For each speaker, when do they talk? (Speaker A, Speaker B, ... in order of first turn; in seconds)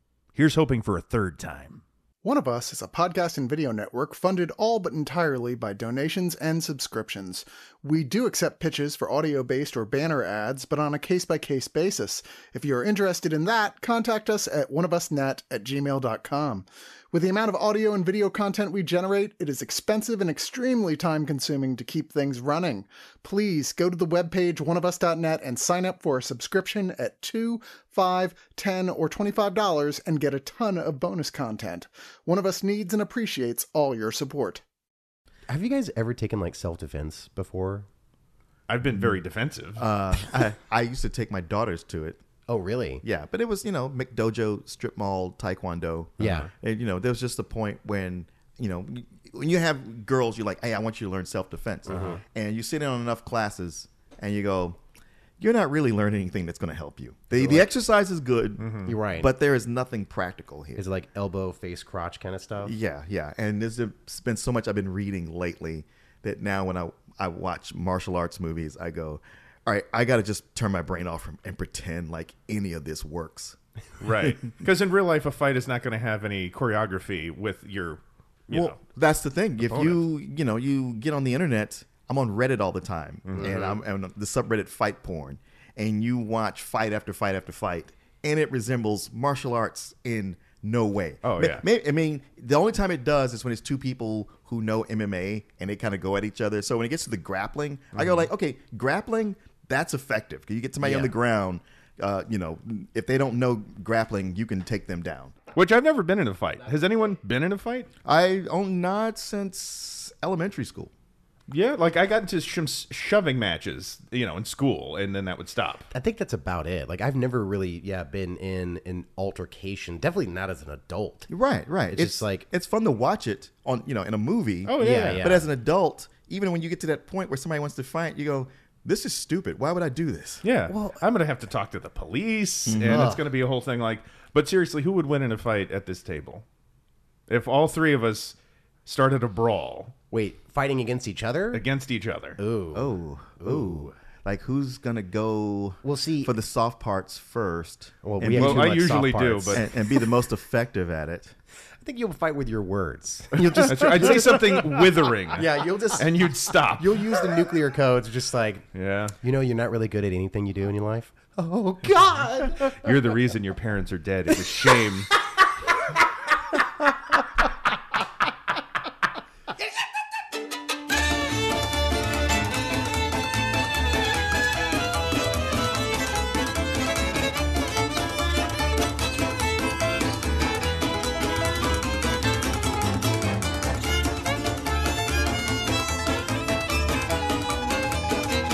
Speaker A: 0.3-1.8, 38.7-39.9, 58.6-58.9, 74.0-78.8, 79.6-80.0, 83.3-83.8, 91.2-91.7, 98.0-98.2, 105.5-107.9, 111.5-115.9, 124.7-125.3, 130.4-136.4, 137.3-139.9, 141.5-142.4, 148.3-149.6, 153.6-157.1, 158.7-159.2, 162.6-165.1
Speaker B: 2.2-34.6
Speaker C: 35.5-37.9, 42.5-43.0, 46.2-46.5, 51.9-52.2, 57.3-57.7, 58.9-59.3, 60.8-62.8, 100.8-101.1, 115.9-121.3, 121.9-122.5, 124.7-125.5, 132.8-133.2, 140.1-141.7, 142.4-143.9, 145.8-146.3, 148.0-150.0, 151.8-154.5, 155.3-158.7, 159.2-162.9, 164.3-164.6
Speaker D: 39.8-42.2, 43.0-54.8, 55.4-60.8, 62.6-73.6, 78.5-105.4, 108.0-110.9, 121.3-130.4, 132.7-133.1, 142.7-148.8, 149.5-151.3, 153.3-154.9